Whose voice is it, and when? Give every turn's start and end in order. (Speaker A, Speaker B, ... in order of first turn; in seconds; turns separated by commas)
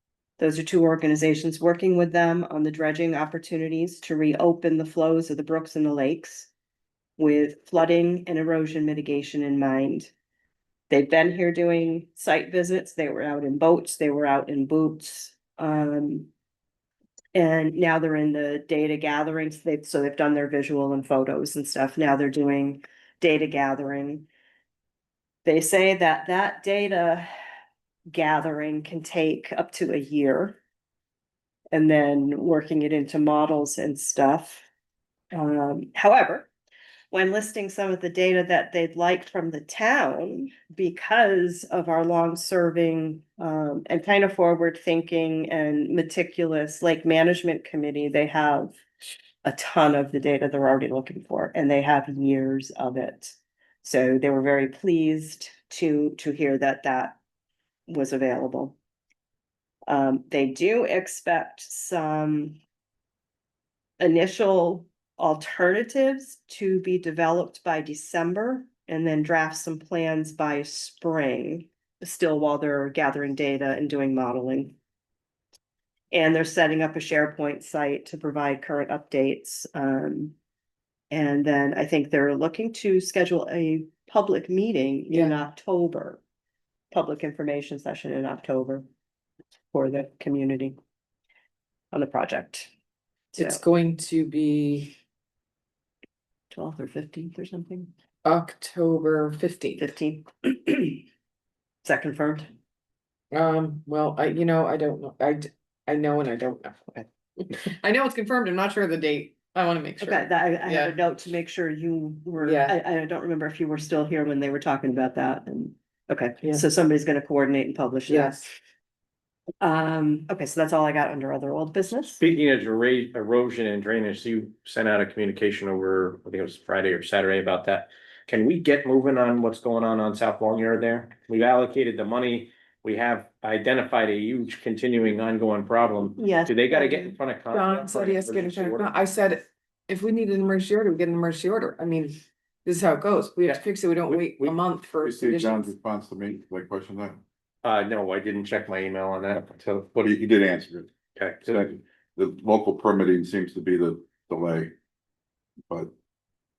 Speaker A: 0.4-6.5, Speaker A: 7.2-10.1, Speaker A: 10.9-16.3, Speaker A: 17.3-24.3, Speaker A: 25.4-27.3, Speaker A: 28.1-30.6, Speaker A: 31.7-34.6, Speaker A: 35.3-36.5, Speaker A: 37.1-48.8, Speaker A: 49.4-57.2, Speaker A: 57.9-58.8, Speaker A: 59.9-62.6, Speaker A: 64.0-74.8, Speaker A: 76.1-80.3, Speaker A: 81.1-86.2, Speaker B: 85.1-85.4, Speaker A: 86.9-88.9, Speaker A: 89.7-90.8, Speaker A: 91.9-92.7, Speaker A: 93.3-93.6, Speaker B: 93.3-95.0, Speaker A: 96.5-97.9, Speaker B: 98.2-99.9, Speaker A: 99.8-101.0, Speaker A: 101.8-102.5, Speaker B: 103.3-111.0, Speaker A: 110.0-118.5, Speaker B: 112.4-112.8, Speaker B: 118.1-118.5, Speaker A: 119.6-122.2, Speaker C: 122.2-138.9, Speaker A: 136.2-137.2, Speaker B: 137.5-145.7, Speaker C: 143.4-144.6, Speaker D: 145.0-147.2, Speaker C: 147.6-150.1, Speaker D: 150.0-150.9, Speaker C: 151.2-151.6, Speaker D: 151.4-154.7